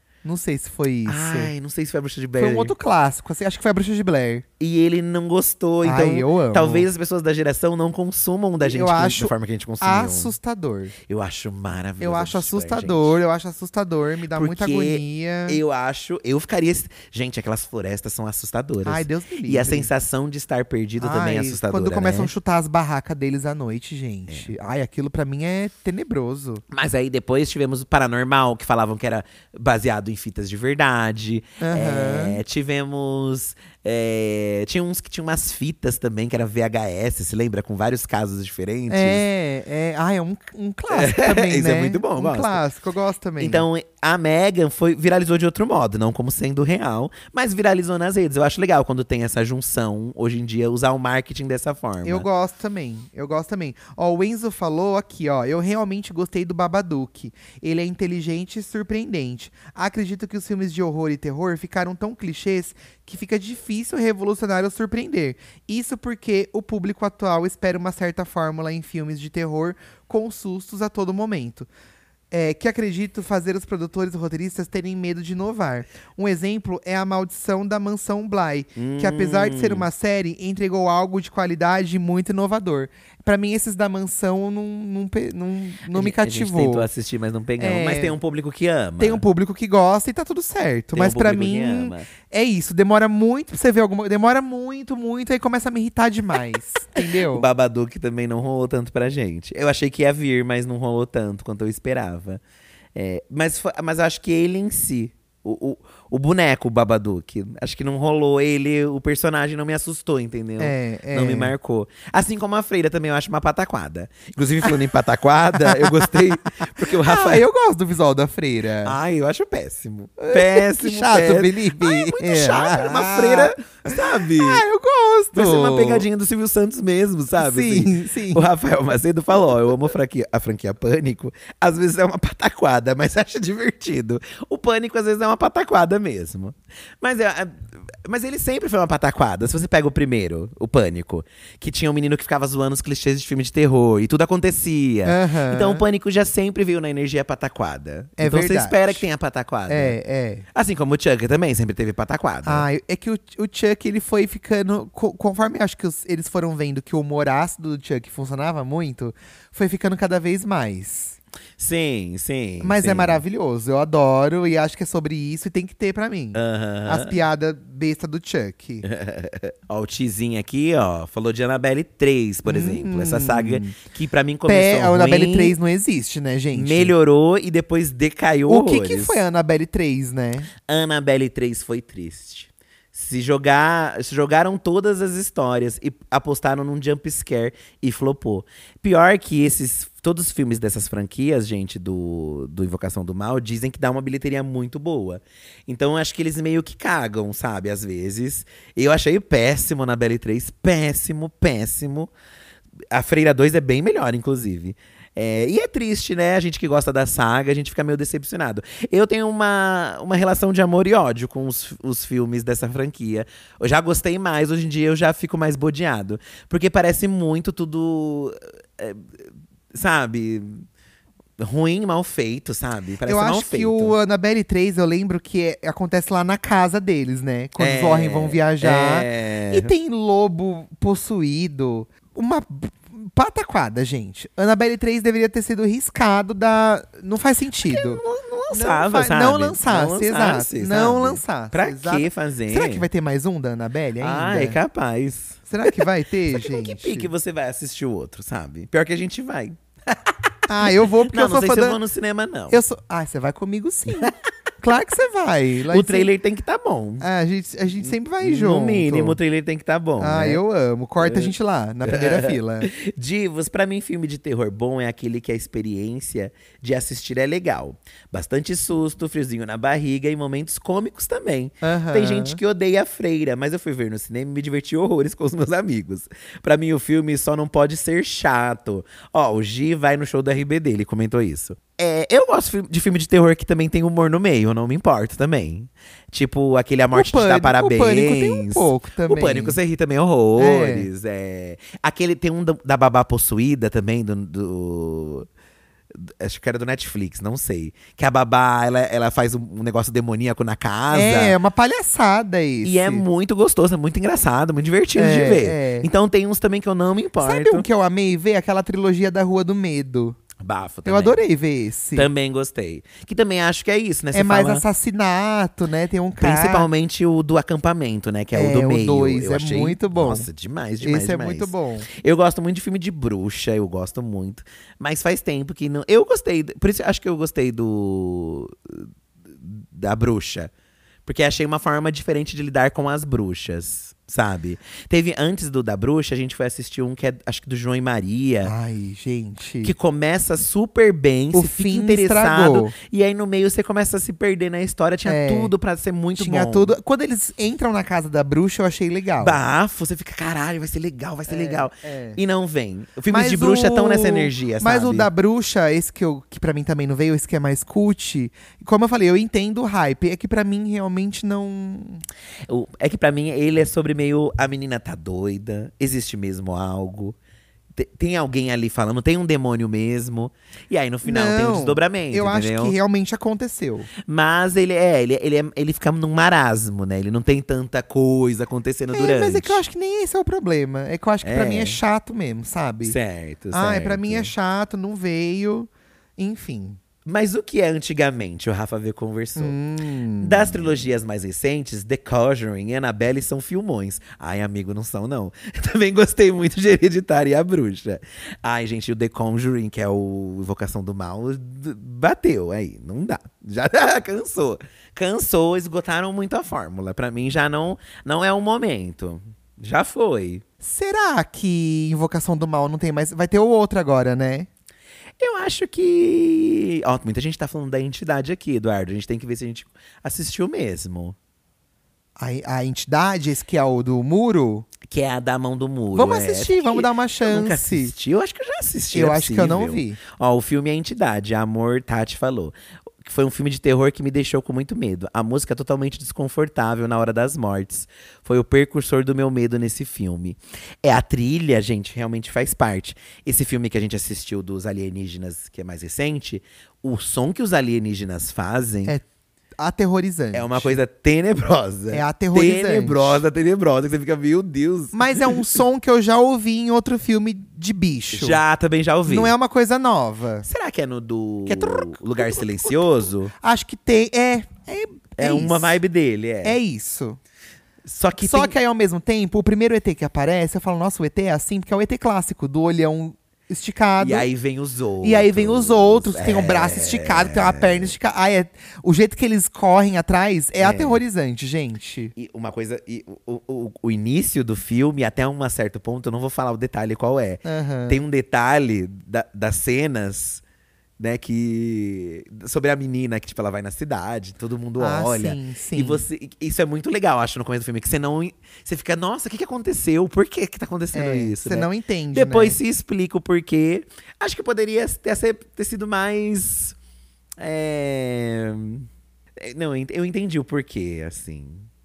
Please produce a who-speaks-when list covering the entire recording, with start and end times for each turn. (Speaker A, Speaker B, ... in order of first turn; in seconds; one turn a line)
Speaker A: 0.2-1.5
Speaker B: 1.1-2.7
Speaker A: 2.4-4.5
Speaker B: 4.6-10.3
Speaker A: 5.8-6.9
Speaker A: 8.6-10.9
Speaker B: 11.1-13.2
Speaker A: 12.0-15.6
Speaker B: 14.3-22.3
Speaker A: 18.9-19.9
Speaker A: 21.0-26.6
Speaker B: 26.7-39.2
Speaker A: 31.6-32.4
Speaker A: 38.9-43.6
Speaker B: 40.9-42.6
Speaker B: 43.4-52.3
Speaker A: 52.0-71.7
Speaker A: 72.3-86.9
Speaker B: 78.8-79.9
Speaker B: 85.9-89.2
Speaker A: 87.6-88.2
Speaker A: 89.0-97.5
Speaker B: 90.9-92.1
Speaker B: 97.3-102.4
Speaker B: 103.0-117.5
Speaker A: 110.6-111.5
Speaker A: 115.6-119.0
Speaker B: 118.8-124.6
Speaker A: 120.2-126.1
Speaker B: 125.3-150.0
Speaker A: 127.4-128.4
Speaker A: 145.1-145.8
Speaker A: 148.2-149.1
Speaker A: 149.7-150.4
Speaker B: 150.5-152.7
Speaker A: 152.4-161.2
Speaker B: 161.6-163.2
Speaker A: 162.6-168.9
Speaker B: 166.3-167.2
Speaker B: 168.8-175.6
Speaker A: 172.4-173.8
Speaker A: 174.5-176.9
Speaker B: 176.5-179.2
Speaker A: 178.5-180.5
Speaker B: 180.7-202.1
Speaker B: 202.9-220.7
Speaker B: 221.4-224.0
Speaker A: 223.1-244.6
Speaker B: 227.6-229.7
Speaker B: 237.7-242.9
Speaker B: 244.0-245.8
Speaker A: 245.5-247.1
Speaker B: 246.3-252.6
Speaker A: 250.5-251.8
Speaker A: 252.5-256.1
Speaker B: 253.9-254.1
Speaker B: 255.7-257.1
Speaker A: 257.0-259.2
Speaker B: 257.8-260.4
Speaker A: 260.0-262.7
Speaker B: 261.0-261.3
Speaker B: 261.9-295.3
Speaker A: 271.6-272.4
Speaker A: 286.9-289.6
Speaker A: 290.4-290.9
Speaker B: 295.9-301.4
Speaker A: 300.9-303.0
Speaker B: 302.6-307.7
Speaker A: 305.0-305.9
Speaker A: 307.2-310.2
Speaker B: 310.4-311.2
Speaker A: 310.9-312.1
Speaker B: 311.9-314.6
Speaker A: 314.1-316.7
Speaker B: 316.2-330.5
Speaker A: 318.3-320.3
Speaker A: 320.8-321.9
Speaker B: 331.1-338.5
Speaker A: 338.4-339.7
Speaker B: 339.6-346.7
Speaker A: 341.3-342.7
Speaker A: 345.1-345.5
Speaker A: 346.2-349.4
Speaker B: 349.2-355.1
Speaker A: 351.3-352.2
Speaker A: 353.1-362.0
Speaker B: 362.5-367.2
Speaker B: 367.8-372.8
Speaker A: 371.0-373.9
Speaker B: 374.0-379.6
Speaker A: 378.9-383.0
Speaker B: 381.2-381.8
Speaker B: 382.8-384.3
Speaker A: 383.5-386.8
Speaker B: 387.1-389.6
Speaker A: 389.4-390.7
Speaker B: 390.2-410.4
Speaker A: 410.6-414.5
Speaker B: 415.2-421.1
Speaker A: 422.2-424.7
Speaker B: 424.8-448.9
Speaker A: 425.9-427.9
Speaker A: 428.9-430.0
Speaker A: 449.6-450.8
Speaker B: 450.3-455.6
Speaker A: 451.9-453.2
Speaker A: 454.9-458.4
Speaker B: 458.1-459.3
Speaker A: 459.1-460.5
Speaker B: 460.4-463.3
Speaker A: 461.5-462.8
Speaker A: 463.4-465.8
Speaker B: 465.2-466.6
Speaker A: 466.4-467.2
Speaker B: 467.8-468.6
Speaker A: 468.2-474.3
Speaker B: 474.0-477.9
Speaker A: 475.0-482.1
Speaker B: 480.6-481.0
Speaker B: 482.1-490.4
Speaker A: 487.4-488.0
Speaker B: 491.0-506.8
Speaker A: 494.8-496.1
Speaker A: 500.9-502.6
Speaker B: 507.4-508.9
Speaker B: 509.4-511.7